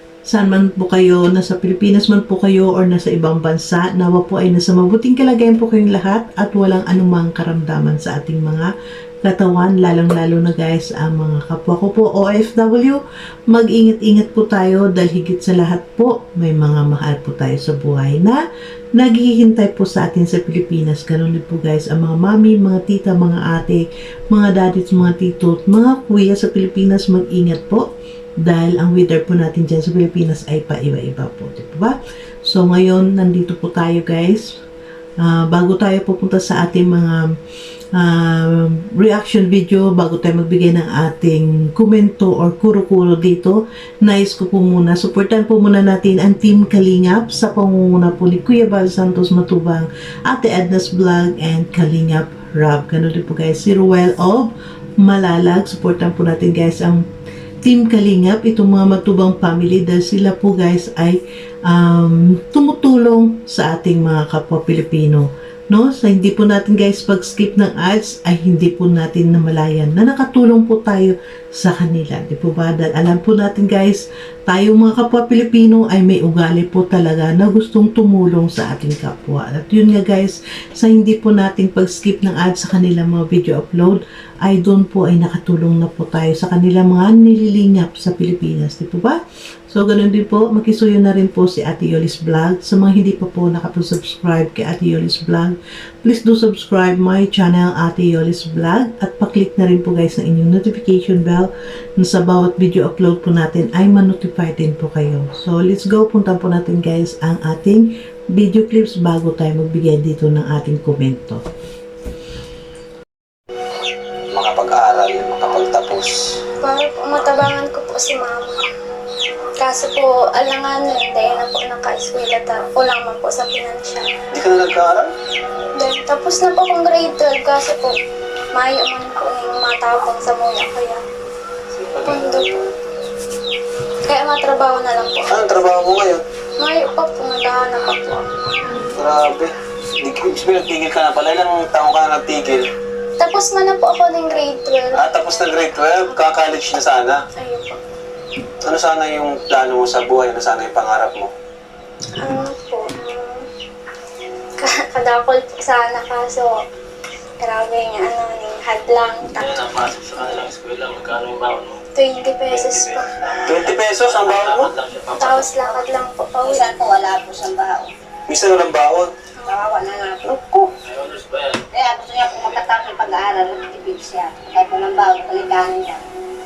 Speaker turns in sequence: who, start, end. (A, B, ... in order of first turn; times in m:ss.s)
0:00.3-0:08.7 A
0:09.2-0:18.4 A
0:18.9-0:27.9 A
0:28.4-0:34.6 A
0:35.2-0:37.3 A
0:38.0-0:57.0 A
0:57.6-1:51.4 A
1:54.3-1:56.2 B
1:56.6-1:58.6 C
1:59.6-2:04.1 C
2:04.3-2:05.1 B
2:05.8-2:08.0 C
2:08.5-2:11.0 C
2:11.8-2:12.4 B
2:12.0-2:12.6 C
2:14.0-2:15.4 C
2:15.3-2:16.2 B
2:16.6-2:18.3 C
2:18.8-2:22.7 B
2:23.2-2:26.3 C
2:25.0-2:27.2 B
2:27.4-2:27.8 C
2:28.6-2:31.3 B
2:32.2-2:33.5 C
2:34.6-2:36.6 C
2:37.4-2:39.7 C
2:39.6-2:41.8 D
2:41.9-2:43.1 C
2:43.4-2:44.8 B
2:43.5-2:45.5 D
2:45.2-2:46.7 C
2:45.6-2:45.8 E
2:46.4-2:47.9 E
2:48.3-2:49.1 B
2:49.5-2:50.3 E
2:50.2-2:50.7 B
2:51.0-2:51.6 D
2:51.7-2:56.0 E